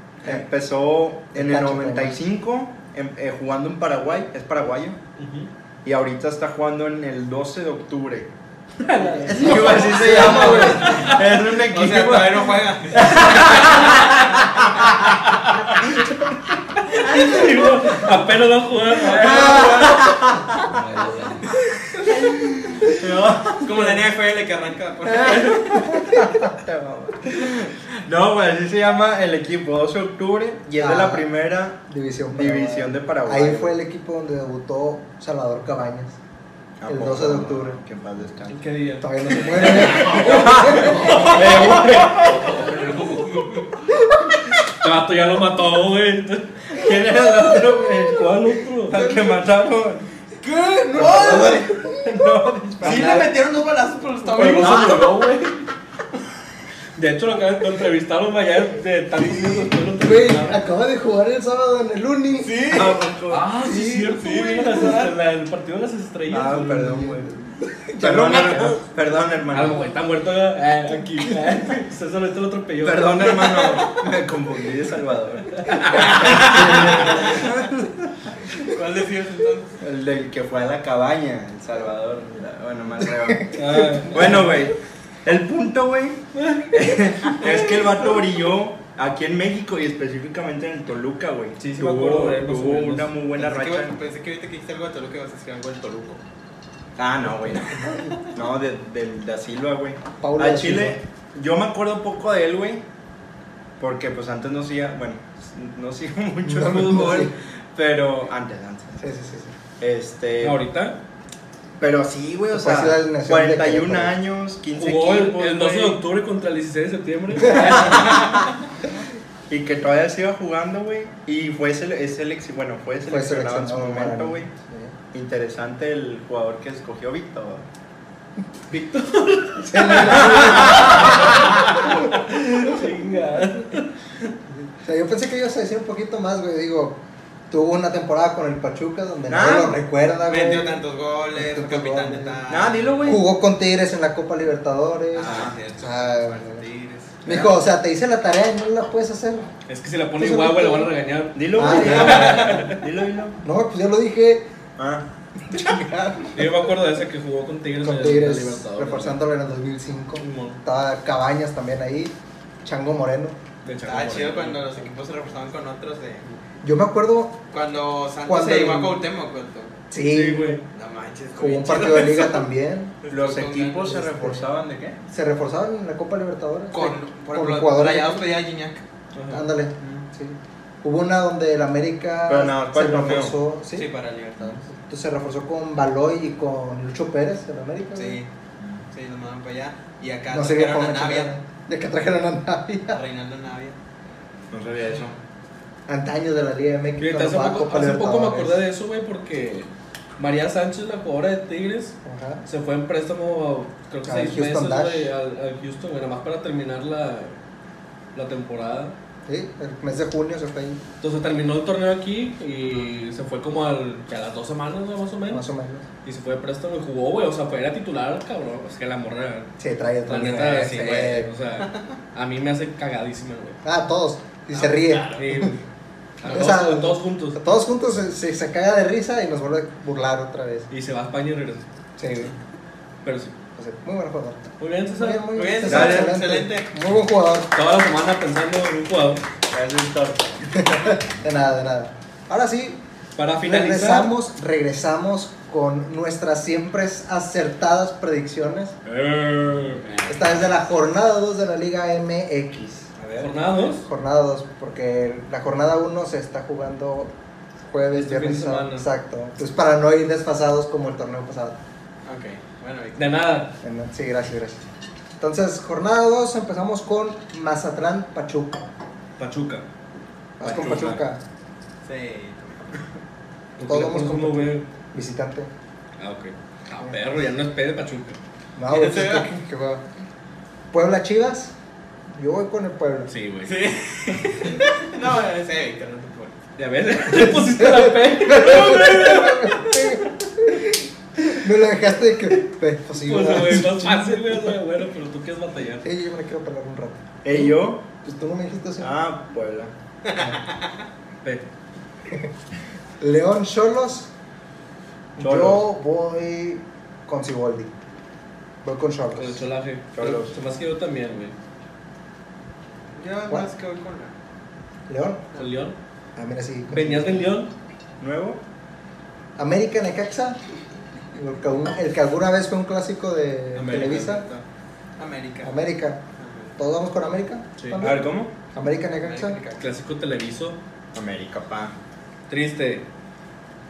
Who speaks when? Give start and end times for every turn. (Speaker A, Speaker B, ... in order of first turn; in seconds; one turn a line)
Speaker A: 0.2-5.0
Speaker B: 1.3-2.2
Speaker C: 5.2-5.5
Speaker A: 5.8-8.3
Speaker A: 8.8-15.1
Speaker C: 8.8-11.2
Speaker B: 9.2-11.0
Speaker D: 10.0-13.2
Speaker C: 13.4-14.2
Speaker C: 15.3-15.8
Speaker C: 16.8-19.7
Speaker D: 19.1-20.1
Speaker A: 19.3-23.9
Speaker D: 23.6-25.9
Speaker C: 25.2-25.8
Speaker A: 25.8-31.8
Speaker B: 25.9-26.2
Speaker B: 30.8-31.3
Speaker B: 31.8-36.2
Speaker A: 32.3-33.7
Speaker A: 36.8-38.6
Speaker B: 36.9-37.8
Speaker C: 38.5-43.6
Speaker B: 39.0-41.1
Speaker A: 40.2-42.7
Speaker C: 44.7-49.0
Speaker A: 46.7-50.0
Speaker D: 48.9-49.4
Speaker D: 50.4-51.7
Speaker A: 50.9-53.3
Speaker B: 51.0-52.2
Speaker D: 52.8-55.5
Speaker C: 52.8-53.3
Speaker C: 54.3-55.6
Speaker A: 54.5-55.0
Speaker C: 57.0-60.6
Speaker B: 60.0-62.7
Speaker D: 62.4-63.1
Speaker A: 62.6-63.5
Speaker C: 63.3-66.9
Speaker D: 63.6-65.1
Speaker A: 66.3-67.3
Speaker B: 66.5-68.8
Speaker A: 68.0-69.8
Speaker C: 69.5-73.8
Speaker A: 72.8-77.9
Speaker C: 75.6-76.8
Speaker D: 76.2-77.4
Speaker B: 76.3-77.5
Speaker D: 78.5-79.8
Speaker A: 79.8-93.9
Speaker B: 83.3-84.1
Speaker C: 83.5-84.6
Speaker C: 86.3-87.5
Speaker C: 91.6-93.1
Speaker D: 93.3-96.2
Speaker A: 97.0-102.8
Speaker B: 97.7-98.1
Speaker D: 98.0-98.3
Speaker B: 100.2-101.0
Speaker A: 103.8-109.0
Speaker B: 106.4-107.3
Speaker B: 109.0-109.5
Speaker A: 109.8-110.6
Speaker C: 110.4-111.0
Speaker A: 111.8-116.0
Speaker B: 112.5-114.2
Speaker C: 114.7-118.3
Speaker A: 117.5-118.1
Speaker A: 119.5-124.5
Speaker B: 123.0-125.0
Speaker A: 125.1-127.7
Speaker C: 128.7-133.9
Speaker B: 129.6-132.1
Speaker A: 130.3-131.1
Speaker B: 134.8-140.8
Speaker A: 139.3-139.8
Speaker D: 140.3-143.2
Speaker B: 141.3-142.4
Speaker A: 142.5-143.2
Speaker B: 143.0-146.6
Speaker D: 145.1-147.2
Speaker A: 145.2-145.5
Speaker B: 147.2-149.5
Speaker A: 147.2-147.5
Speaker C: 149.7-152.7
Speaker B: 150.2-150.9
Speaker A: 151.3-153.4
Speaker B: 151.5-152.7
Speaker B: 153.4-154.5
Speaker A: 154.8-155.0
Speaker B: 155.5-156.4
Speaker C: 156.3-159.2
Speaker B: 157.8-163.4
Speaker C: 160.2-160.6
Speaker C: 163.6-164.7
Speaker D: 163.8-166.3
Speaker B: 166.6-167.4
Speaker D: 167.5-169.7
Speaker B: 168.2-169.0
Speaker B: 169.9-170.6
Speaker C: 170.0-170.6
Speaker D: 170.7-172.4
Speaker B: 171.3-172.9
Speaker D: 173.0-174.0
Speaker A: 173.1-175.0
Speaker B: 173.8-174.4
Speaker B: 175.1-178.2
Speaker D: 176.7-178.8
Speaker C: 179.1-179.5
Speaker B: 179.3-183.9
Speaker A: 182.3-183.3
Speaker D: 183.7-184.7
Speaker B: 184.4-188.2
Speaker D: 187.9-188.3
Speaker A: 188.6-188.8
Speaker D: 188.9-191.3
Speaker B: 190.3-193.0
Speaker D: 192.9-193.8
Speaker A: 194.5-195.2
Speaker B: 195.9-198.6
Speaker C: 197.0-207.3
Speaker B: 202.0-202.4
Speaker B: 204.0-205.1
Speaker C: 208.1-208.9
Speaker B: 209.2-210.8
Speaker C: 211.0-215.4
Speaker B: 215.3-215.9
Speaker C: 216.0-219.5
Speaker B: 219.6-221.3
Speaker C: 220.1-223.6
Speaker D: 220.8-221.1
Speaker B: 223.6-225.6
Speaker C: 224.5-225.6
Speaker C: 226.2-227.4
Speaker B: 226.2-230.7
Speaker C: 230.7-231.7
Speaker B: 232.0-232.3
Speaker C: 233.0-233.3
Speaker B: 233.6-237.5
Speaker C: 234.6-235.3
Speaker D: 235.3-236.7
Speaker A: 235.7-236.2
Speaker C: 237.5-239.2
Speaker A: 239.5-240.3
Speaker B: 240.5-242.8
Speaker C: 243.2-244.1
Speaker B: 243.4-248.8
Speaker C: 248.9-250.0
Speaker B: 250.0-252.9
Speaker A: 253.0-253.3
Speaker C: 253.2-253.9
Speaker B: 253.6-257.1
Speaker B: 257.7-261.6
Speaker C: 257.9-258.9
Speaker D: 262.0-263.1
Speaker C: 262.9-263.5
Speaker B: 263.6-264.6
Speaker B: 265.2-268.6
Speaker C: 269.2-269.6
Speaker B: 270.4-271.2
Speaker A: 270.4-271.0
Speaker D: 271.8-272.8
Speaker C: 273.6-274.7
Speaker B: 273.6-275.5
Speaker C: 276.0-278.2
Speaker B: 278.6-279.8
Speaker D: 278.7-279.3
Speaker B: 280.7-281.5
Speaker B: 282.1-283.1
Speaker C: 283.1-283.8
Speaker D: 283.4-286.4
Speaker C: 286.6-289.7
Speaker B: 287.1-294.5
Speaker C: 293.0-295.8
Speaker B: 295.8-298.9
Speaker A: 297.2-297.8
Speaker A: 298.8-299.7
Speaker D: 300.0-300.7
Speaker B: 300.1-300.4
Speaker B: 303.0-304.1
Speaker B: 305.1-307.7
Speaker A: 305.2-305.6
Speaker B: 308.6-309.4
Speaker C: 309.1-311.3
Speaker A: 309.9-310.3
Speaker D: 312.9-314.1
Speaker B: 314.9-315.2
Speaker C: 315.3-315.8
Speaker B: 316.1-317.3
Speaker C: 316.7-317.5
Speaker A: 318.0-318.4
Speaker B: 319.4-320.4
Speaker B: 321.1-324.3
Speaker C: 323.5-324.4
Speaker D: 325.0-325.5
Speaker B: 325.4-326.0
Speaker D: 326.2-326.5
Speaker B: 326.6-329.4
Speaker A: 327.8-328.3
Speaker D: 329.0-329.7
Speaker C: 329.6-330.6
Speaker A: 330.9-331.7
Speaker C: 332.3-332.9